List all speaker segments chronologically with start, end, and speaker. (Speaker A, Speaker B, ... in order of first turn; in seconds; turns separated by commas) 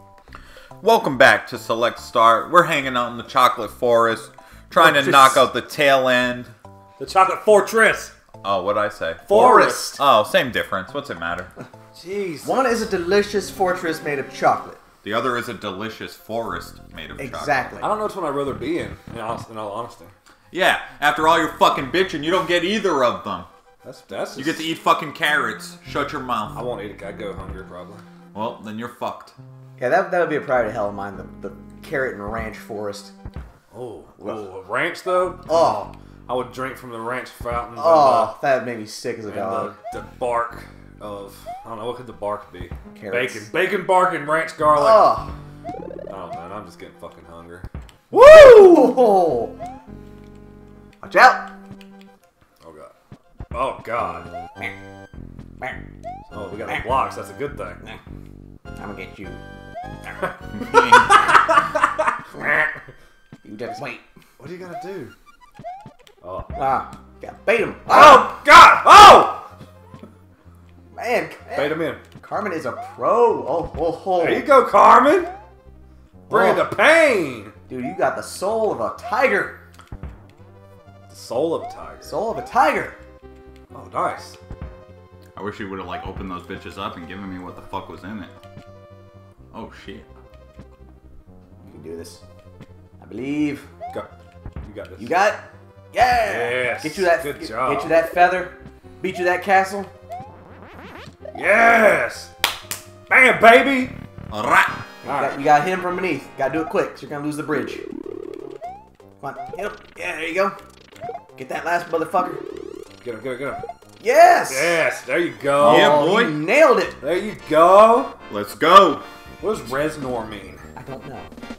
Speaker A: 0.8-6.5, Speaker B: 4.7-5.5, Speaker C: 7.0-8.1, Speaker A: 8.4-11.5, Speaker C: 9.2-9.9, Speaker B: 9.3-10.0, Speaker C: 11.9-12.8, Speaker B: 12.4-14.8, Speaker A: 15.0-17.7, Speaker B: 17.2-17.9, Speaker C: 17.8-20.1, Speaker A: 20.5-23.5, Speaker C: 23.8-24.8, Speaker A: 24.4-26.6, Speaker C: 26.5-28.0, Speaker A: 28.3-29.4, Speaker B: 29.8-33.1, Speaker C: 33.7-38.4, Speaker B: 35.5-35.9, Speaker B: 37.7-39.7, Speaker C: 39.3-45.2, Speaker B: 42.9-43.5, Speaker B: 44.7-45.3, Speaker C: 46.1-49.0, Speaker B: 48.1-49.6, Speaker B: 51.0-51.5, Speaker C: 52.6-52.9, Speaker C: 53.5-54.3, Speaker C: 56.3-57.8, Speaker B: 58.8-59.4, Speaker C: 60.2-62.8, Speaker A: 60.5-61.5, Speaker B: 63.4-64.0, Speaker C: 64.4-65.1, Speaker C: 66.2-66.7, Speaker B: 66.5-68.4, Speaker C: 67.8-69.5, Speaker B: 70.9-74.5, Speaker C: 71.5-72.0, Speaker C: 74.2-75.3, Speaker B: 76.3-76.7, Speaker C: 76.3-77.5, Speaker B: 77.7-79.6, Speaker C: 81.1-82.2, Speaker B: 82.0-83.0, Speaker C: 83.7-84.4, Speaker A: 85.3-88.3, Speaker A: 89.5-90.1, Speaker B: 91.6-92.2, Speaker B: 93.0-93.7, Speaker C: 94.6-95.1, Speaker B: 95.0-99.9, Speaker C: 96.2-98.0, Speaker C: 101.3-102.3, Speaker C: 103.1-104.0, Speaker A: 104.3-104.8, Speaker C: 105.0-105.4, Speaker B: 105.0-107.8, Speaker B: 109.2-110.6, Speaker B: 111.3-112.4, Speaker C: 113.0-113.6, Speaker B: 114.0-114.8, Speaker C: 114.5-116.0, Speaker A: 115.6-116.4, Speaker B: 115.6-117.0, Speaker C: 117.0-118.1, Speaker A: 118.3-119.0, Speaker C: 119.4-120.6, Speaker B: 120.8-121.3